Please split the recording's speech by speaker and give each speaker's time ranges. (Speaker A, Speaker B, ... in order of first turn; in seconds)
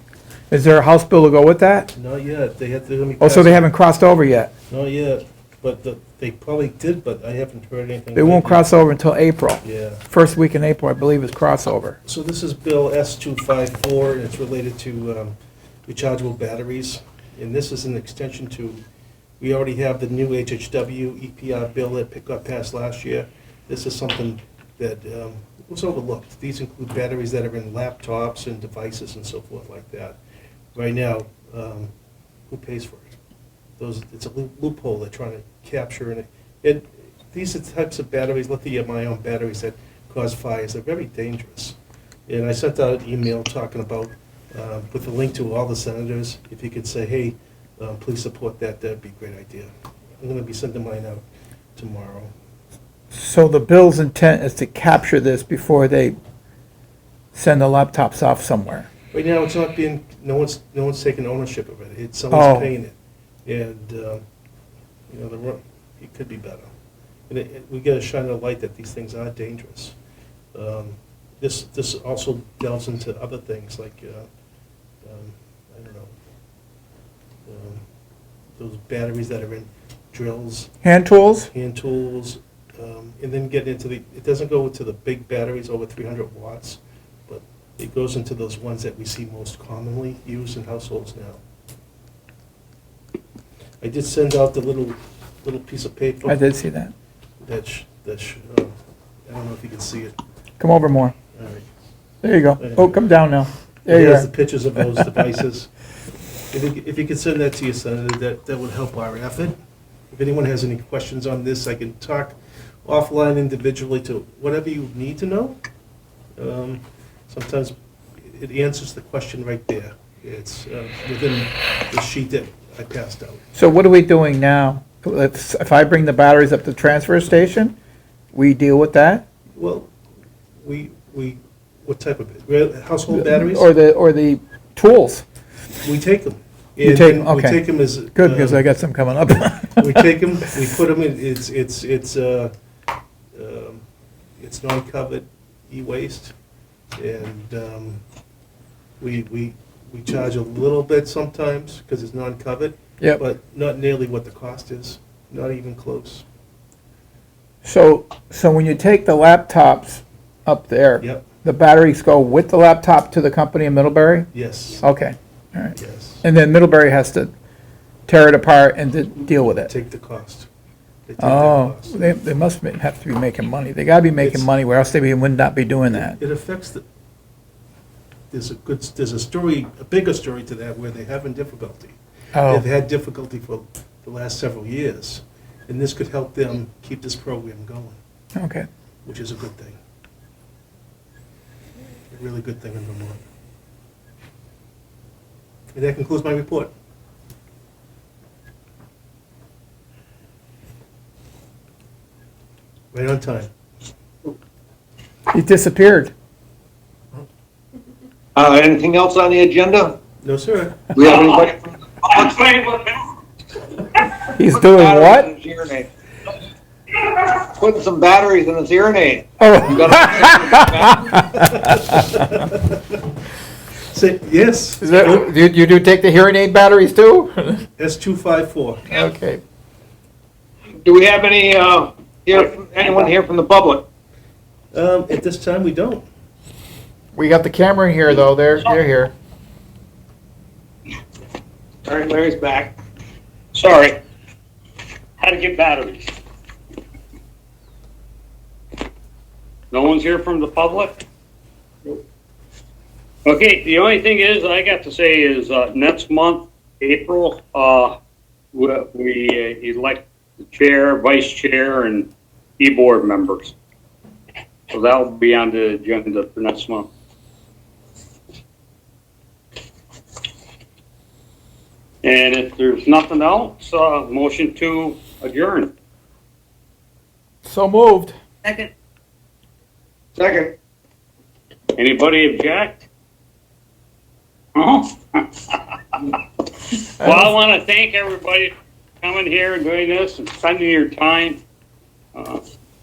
Speaker A: 0.5-1.9, 3.2-4.5, 8.1-12.0, 53.1-56.2, 57.3-58.9, 62.3-62.7, 80.8-81.5, 96.2-96.9, 100.6-101.1, 102.2-104.3, 104.9-105.2, 123.5-127.7, 128.3-129.2, 133.1-135.2, 136.8-137.6, 138.1-140.0, 157.6-164.3, 164.8-167.3, 168.1-169.7, 171.2-176.2, 182.3-182.6, 188.3-188.7, 205.3-206.1, 214.3-215.3, 219.4-221.1, 224.8-227.7, 228.9-229.4, 237.2-239.1, 277.4-278.1, 287.0-287.3
Speaker B: 1.9-3.7, 4.7-8.7, 9.6-10.0, 12.1-15.3, 15.9-18.8, 19.4-30.2, 30.7-31.9, 32.5-33.1, 33.8-51.2, 51.8-52.3, 59.1-64.2, 65.1-66.7, 67.3-70.0, 70.5-74.3, 75.0-76.1, 77.5-77.8, 78.6-80.7, 81.5-91.4, 93.8-96.4, 97.4-98.7, 99.3-100.1, 101.3-101.7, 102.6-103.0, 103.9-105.7, 106.5-109.5, 110.1-115.6, 116.4-123.4, 129.6-129.9, 130.6-133.7, 135.8-138.6, 139.8-142.5, 143.3-143.8, 144.4-146.3, 146.9-148.0, 149.0-156.2, 161.0-161.3, 164.3-164.8, 165.7-166.2, 169.6-170.5, 171.1-172.1, 174.2-174.5, 175.9-176.8, 178.3-188.0, 189.0-189.8, 192.1-193.2, 195.7-196.7, 202.9-203.5, 210.2-210.9, 221.3-223.0, 223.9-225.3, 227.8-228.8, 234.7-236.1
Speaker C: 208.3-210.0, 210.9-212.4, 214.5-215.9, 217.4-221.1, 230.8-233.8, 241.8-242.7, 280.1-280.6
Speaker D: 211.0-211.4, 212.1-213.0, 243.5-244.0, 245.2-246.2, 249.7-251.0, 253.2-258.0, 258.5-263.5, 264.7-266.9, 272.0-275.7, 278.4-278.7, 281.8-282.8, 284.6-286.2, 287.0-291.4, 292.1-292.4